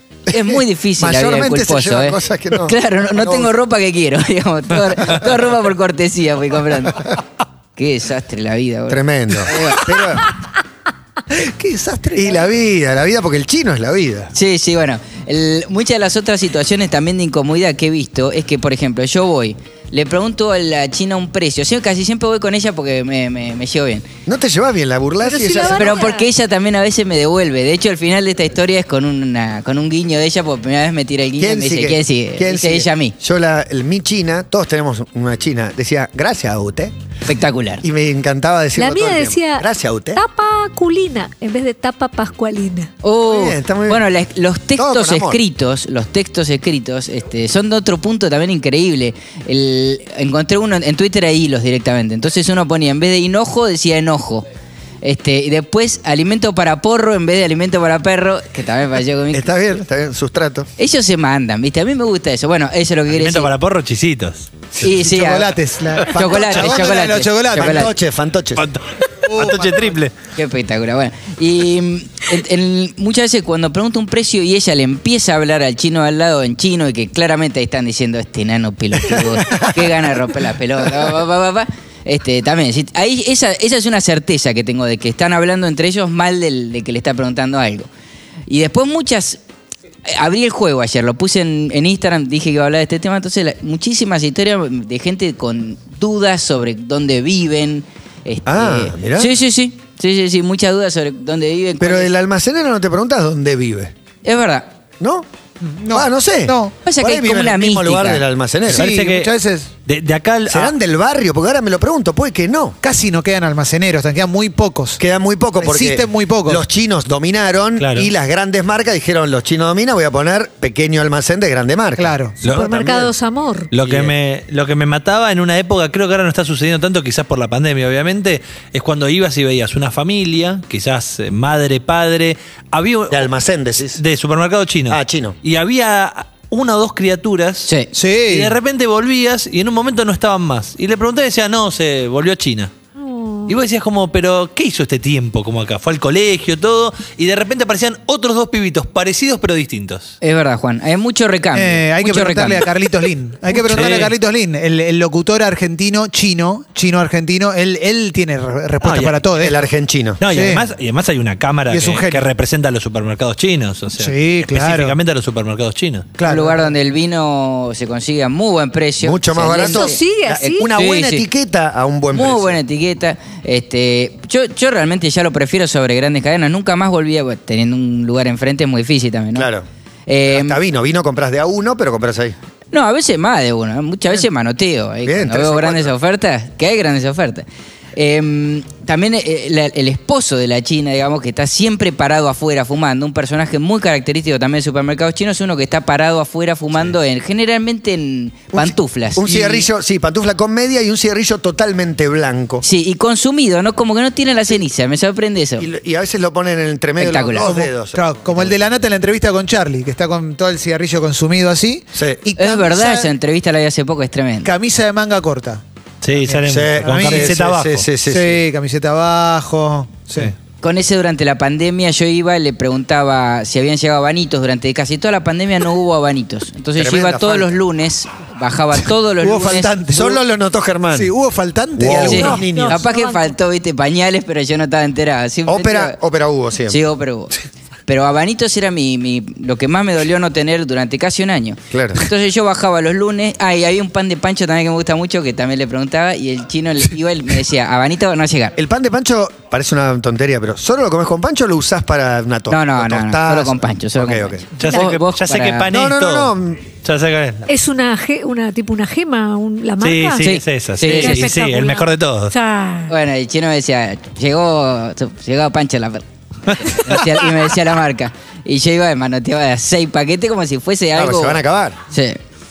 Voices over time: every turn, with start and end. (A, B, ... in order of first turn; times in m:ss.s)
0:00.3-0:07.0 A
0:00.4-0:03.5 B
0:07.8-0:09.8 A
0:08.9-0:10.3 B
0:11.3-0:12.4 C
0:12.1-0:14.3 B
0:14.3-0:24.1 A
0:24.3-0:25.9 B
0:25.2-0:26.3 D
0:25.7-0:33.2 A
0:31.4-0:36.9 B
0:37.3-0:37.8 A
0:37.8-0:40.2 B
0:38.8-0:42.9 D
0:43.0-0:54.4 A
0:43.2-0:44.1 B
0:44.8-0:45.4 B
0:55.0-0:59.5 A
0:59.3-1:00.7 B
1:00.8-1:03.5 A
1:03.1-1:04.5 E
1:04.8-1:07.9 C
1:04.8-1:07.9 A
1:06.4-1:06.8 E
1:07.5-1:08.7 B
1:08.6-1:10.1 E
1:09.3-1:10.0 C
1:10.3-1:27.9 A
1:19.4-1:19.7 B
1:28.5-1:29.4 A
1:30.1-1:42.1 A
1:38.5-1:39.4 B
1:41.8-1:43.9 B
1:44.2-1:44.7 A
1:45.0-1:45.3 B
1:45.6-1:46.8 C
1:45.9-1:48.9 B
1:46.8-1:48.2 A
1:48.7-1:49.3 E
1:48.7-1:49.7 C
1:49.9-1:50.7 E
1:50.5-1:52.8 B
1:52.8-1:55.0 C
1:55.0-2:03.2 B
1:55.6-1:56.6 C
1:57.8-1:58.1 E
2:02.0-2:02.4 C
2:02.5-2:03.7 D
2:03.7-2:13.3 E
2:03.8-2:04.1 B
2:13.1-2:14.0 B
2:13.8-2:17.7 E
2:14.9-2:15.4 B
2:17.9-2:18.6 C
2:18.2-2:22.7 E
2:23.0-2:23.6 D
2:23.5-2:30.2 E
2:30.2-2:32.7 A
2:31.5-2:39.7 C
2:33.7-2:34.2 E
2:38.8-2:39.3 E
2:39.4-2:40.2 B
2:40.2-2:46.1 E
2:40.2-2:40.7 C
2:41.7-2:42.3 C
2:44.0-2:45.0 C
2:46.2-2:46.7 C
2:46.3-2:51.2 A
2:49.0-2:52.6 B
2:49.6-2:50.8 D
2:52.1-2:59.5 A
2:59.4-2:59.7 B
3:00.1-3:00.6 A
3:00.3-3:02.4 B
3:02.7-3:19.3 A
3:05.0-3:05.9 B
3:18.5-3:22.6 B
3:19.2-3:19.7 C
3:22.6-3:25.7 A
3:25.6-3:28.6 B
3:27.0-3:27.6 A
3:27.4-3:33.1 C
3:32.0-3:32.2 B
3:32.4-3:34.5 A
3:34.4-3:37.3 C
3:36.0-3:37.9 E
3:36.5-3:38.4 B
3:38.0-3:40.3 C
3:40.6-3:49.7 A
3:46.8-3:47.5 B
3:49.2-3:50.2 C
3:49.9-3:51.1 B
3:50.9-3:52.4 C
3:51.8-3:52.8 B
3:51.9-3:56.0 A
3:52.1-3:53.4 D
3:55.5-3:56.8 B
3:56.7-3:57.3 A
3:57.9-4:08.6 A
4:01.7-4:02.0 B
4:08.6-4:14.4 B
4:12.5-4:15.7 A
4:14.6-4:17.5 E
4:15.7-4:16.6 B
4:17.5-4:20.3 D
4:19.8-4:22.3 E
4:20.2-4:21.2 A
4:20.8-4:22.9 D
4:22.9-4:32.2 A
4:26.5-4:26.8 E
4:31.0-4:31.8 B